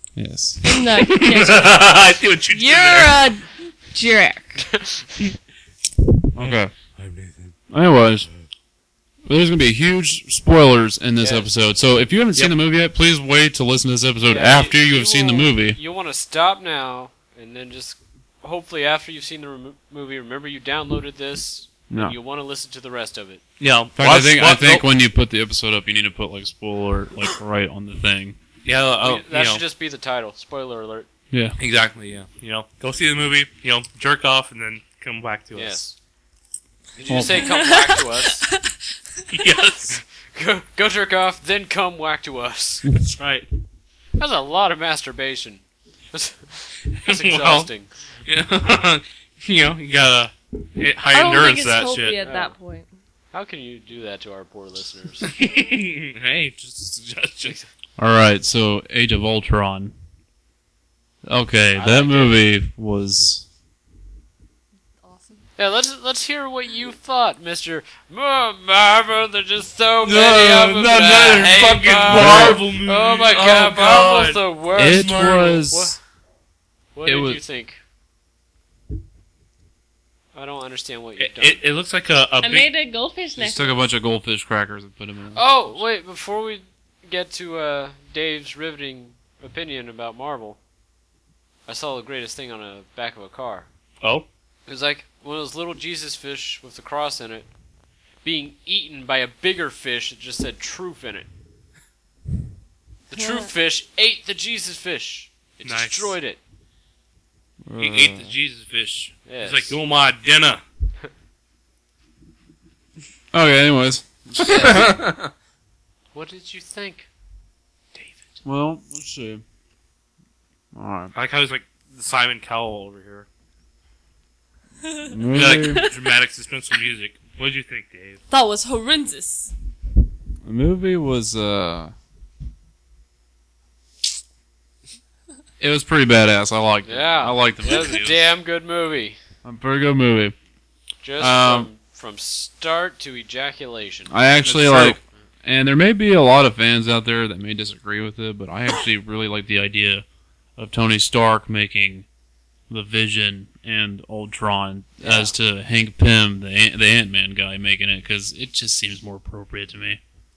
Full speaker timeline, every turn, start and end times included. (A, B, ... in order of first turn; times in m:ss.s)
0:00.2-0:00.8 A
0:00.6-0:04.6 B
0:00.9-0:03.3 C
0:04.6-0:05.1 D
0:06.3-0:06.7 A
0:06.4-0:07.6 C
0:07.7-0:08.3 A
0:09.2-0:15.8 A
0:11.2-0:11.5 D
0:14.2-0:23.4 D
0:21.9-0:22.2 A
0:23.6-0:24.9 C
0:24.0-0:28.4 A
0:28.6-0:29.6 C
0:29.0-0:31.1 D
0:31.3-0:31.6 A
0:31.6-0:35.8 C
0:35.5-0:36.0 D
0:37.0-0:38.5 D
0:37.1-0:37.5 A
0:37.4-0:38.4 B
0:39.3-0:40.0 C
0:39.9-0:42.9 D
0:43.1-0:43.5 C
0:44.2-0:48.1 D
0:47.0-0:47.7 C
0:48.2-0:52.2 C
0:51.1-0:52.9 B
0:52.2-0:52.5 D
0:53.3-0:55.4 D
0:55.2-0:57.6 C
0:58.0-0:59.9 A
1:01.2-1:03.4 A
1:01.7-1:02.4 D
1:05.0-1:05.4 B
1:05.6-1:15.2 D
1:10.1-1:15.6 C
1:10.1-1:12.6 A
1:14.8-1:16.0 A
1:15.7-1:16.0 D
1:16.9-1:17.8 D
1:17.0-1:17.4 A
1:20.3-1:21.6 D
1:21.2-1:22.7 C
1:22.4-1:23.8 B
1:23.3-1:25.5 A
1:25.3-1:30.6 D
1:31.7-1:33.7 D
1:34.0-1:34.2 C
1:34.7-1:37.5 D
1:38.2-1:41.3 D
1:43.1-1:46.4 D
1:43.1-1:43.5 B
1:45.6-1:46.1 C
1:47.6-1:48.3 A
1:47.8-1:50.6 C
1:49.2-1:49.8 D
1:53.3-1:54.8 A
1:54.4-1:55.3 C
1:54.4-1:54.9 D
1:56.1-1:57.1 D
1:57.9-1:58.4 D
1:58.4-1:59.4 A
2:00.7-2:01.1 A
2:01.1-2:03.3 C
2:04.8-2:06.0 B
2:05.1-2:05.8 A
2:05.3-2:08.2 C
2:08.3-2:09.5 B
2:10.4-2:11.9 A
2:15.6-2:18.3 A
2:16.8-2:19.2 D
2:19.4-2:20.3 A
2:21.0-2:24.1 D
2:21.2-2:21.7 A
2:24.1-2:30.0 A
2:24.4-2:25.0 C
2:30.6-2:32.0 A
2:32.7-2:40.0 A
2:35.0-2:35.3 D